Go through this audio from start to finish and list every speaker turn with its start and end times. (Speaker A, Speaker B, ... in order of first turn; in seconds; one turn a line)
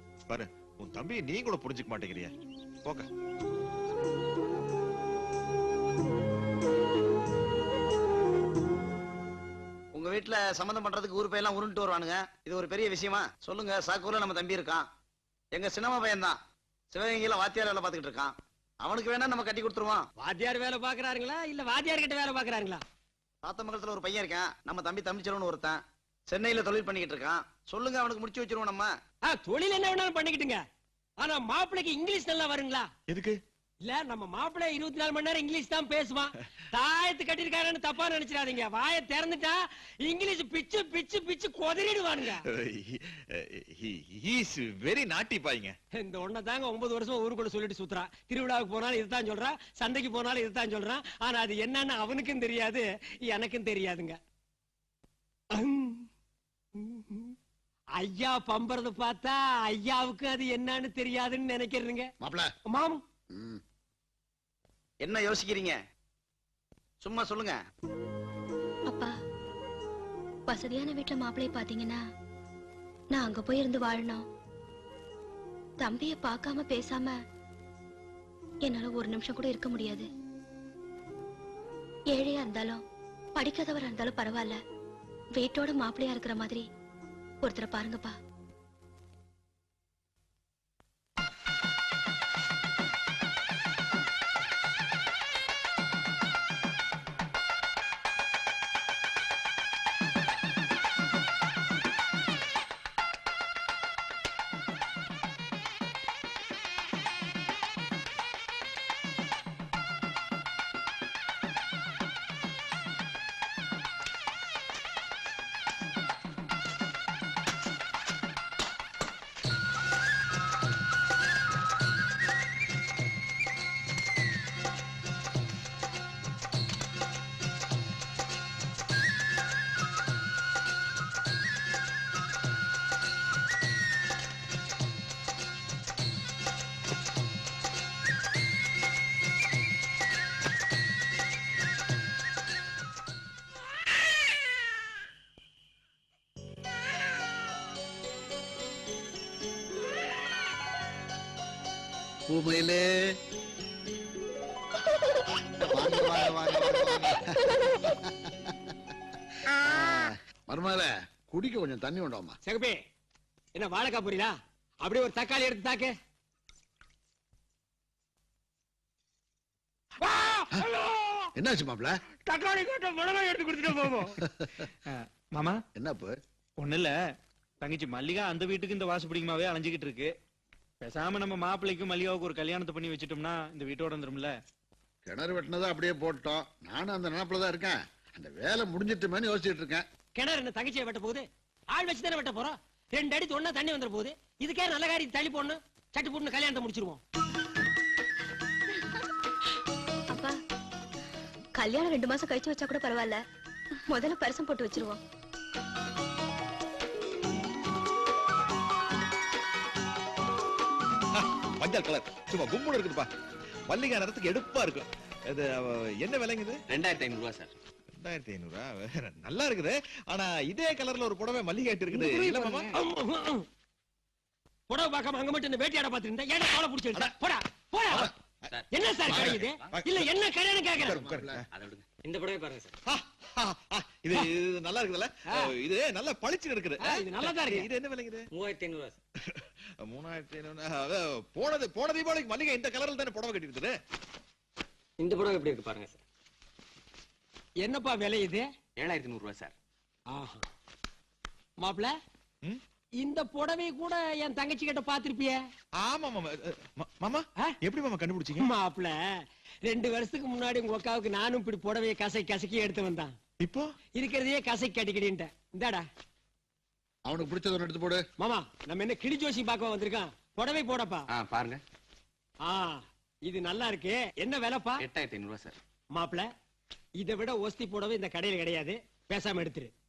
Speaker A: 0.3-2.3
Speaker B: 9.9-14.9
Speaker B: 15.5-16.4
Speaker B: 16.9-20.1
Speaker C: 20.2-22.8
Speaker B: 23.4-28.9
Speaker C: 29.2-30.6
Speaker C: 31.2-32.9
Speaker A: 33.1-33.4
Speaker C: 33.8-42.4
Speaker A: 42.5-45.7
Speaker C: 46.0-54.2
Speaker C: 55.5-56.1
Speaker C: 56.8-57.3
Speaker C: 58.0-62.1
Speaker D: 62.2-62.5
Speaker C: 62.7-63.0
Speaker D: 63.3-63.6
Speaker B: 65.0-65.8
Speaker B: 67.0-67.6
Speaker E: 70.5-72.0
Speaker E: 73.1-74.2
Speaker E: 75.8-77.1
Speaker E: 78.6-80.1
Speaker E: 82.1-82.8
Speaker E: 83.3-84.6
Speaker E: 85.3-86.6
Speaker E: 87.4-88.1
Speaker D: 152.3-153.1
Speaker D: 155.6-158.7
Speaker D: 159.4-162.4
Speaker C: 162.4-162.8
Speaker C: 163.5-165.9
Speaker C: 170.0-171.3
Speaker D: 171.4-171.9
Speaker C: 172.2-174.1
Speaker D: 174.4-174.7
Speaker F: 175.0-175.6
Speaker D: 175.8-176.2
Speaker F: 176.6-176.9
Speaker F: 177.6-180.1
Speaker F: 180.8-184.4
Speaker D: 185.1-189.8
Speaker C: 190.1-197.0
Speaker E: 200.1-200.4
Speaker E: 201.6-203.2
Speaker E: 203.9-205.0
Speaker A: 211.1-213.1
Speaker A: 213.7-216.6
Speaker G: 216.7-217.5
Speaker A: 218.0-222.7
Speaker C: 221.9-223.5
Speaker D: 222.0-222.8
Speaker C: 224.7-228.1
Speaker A: 227.9-230.1
Speaker C: 228.7-231.0
Speaker A: 230.7-231.4
Speaker D: 230.8-231.4
Speaker G: 231.5-231.8
Speaker A: 232.9-238.3
Speaker C: 236.8-237.7
Speaker A: 239.3-243.7
Speaker C: 247.6-248.4
Speaker G: 248.8-249.5
Speaker C: 250.1-250.4
Speaker C: 251.6-251.9
Speaker C: 253.0-255.4
Speaker A: 255.8-258.5
Speaker C: 258.4-259.1
Speaker C: 259.6-263.1
Speaker A: 263.4-263.7
Speaker C: 263.9-265.8
Speaker D: 267.1-268.0
Speaker C: 268.2-271.0
Speaker G: 271.1-271.6
Speaker C: 272.4-274.8
Speaker G: 274.8-275.6
Speaker C: 275.9-276.3
Speaker C: 277.0-279.7